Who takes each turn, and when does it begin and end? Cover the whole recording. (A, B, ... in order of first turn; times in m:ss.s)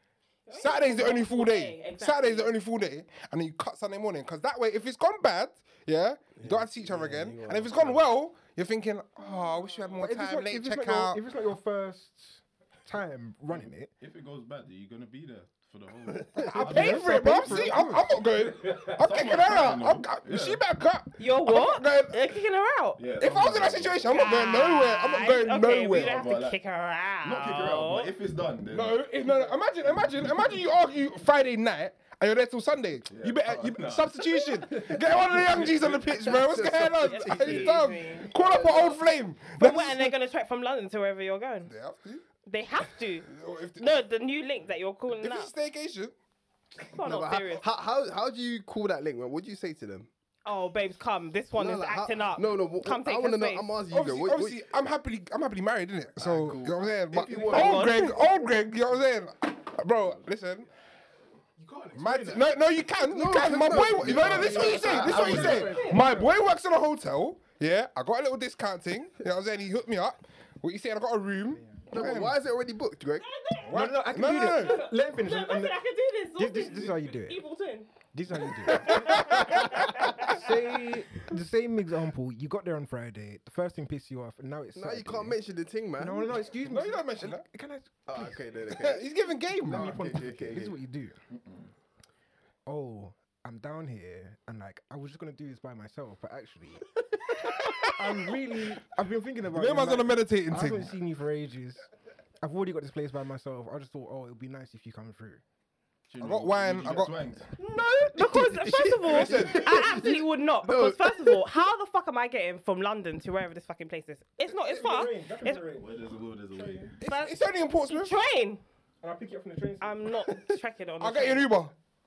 0:00.5-0:02.5 A
0:00.5-0:11.2 B
0:06.4-0:08.0 C
0:09.4-0:09.9 A
0:10.0-0:13.9 D
0:13.5-0:18.0 E
0:16.1-0:16.9 C
0:16.4-0:22.3 B
0:16.5-0:18.0 D
0:19.0-0:20.6 E
0:21.2-0:23.0 A
0:23.0-0:24.1 E
0:23.2-0:26.3 B
0:24.1-0:28.1 A
0:25.9-0:26.6 E
0:27.2-0:29.0 E
0:28.7-0:40.2 B
0:30.0-0:30.4 E
0:33.1-0:35.8 E
0:35.7-0:39.0 C
0:36.9-0:39.0 A
0:39.6-0:41.7 A
0:41.7-0:42.2 B
0:42.5-0:45.5 A
0:43.3-0:44.0 B
0:45.1-0:46.2 B
0:46.8-0:47.6 A
0:47.0-0:50.1 C
0:50.4-0:53.7 A
0:51.5-0:54.6 C
0:53.9-1:00.7 B
0:56.2-0:58.0 C
0:57.4-0:58.2 A
1:01.6-1:02.6 F
1:01.9-1:12.4 B
1:03.0-1:05.6 C
1:04.0-1:05.9 E
1:04.6-1:06.2 D
1:05.1-1:06.1 F
1:05.2-1:06.0 A
1:11.9-1:13.3 C
1:13.2-1:17.9 A
1:13.6-1:15.8 D
1:13.7-1:14.9 B
1:16.4-1:17.4 D
1:18.1-1:19.4 D
1:18.7-1:20.4 A
1:18.7-1:20.4 B
1:20.1-1:25.4 D
1:24.7-1:26.5 C
1:26.0-1:28.4 D
1:26.6-1:27.4 B
1:28.1-1:29.1 C
1:28.7-1:30.0 B
1:29.6-1:30.8 C
1:29.6-1:31.2 D
1:31.3-1:31.7 E
1:32.7-1:36.9 D
1:38.0-1:41.9 D
1:39.5-1:40.9 B
1:42.4-1:45.4 D
1:46.1-1:47.5 E
1:46.2-1:47.2 B
1:47.6-1:55.6 A
1:48.7-1:49.8 B
1:49.0-1:51.4 C
1:54.6-1:56.9 D
1:55.7-1:57.0 E
1:57.0-1:58.2 B
1:57.0-1:58.6 A
1:59.0-2:00.1 D
1:59.8-2:01.6 A
2:01.0-2:01.7 B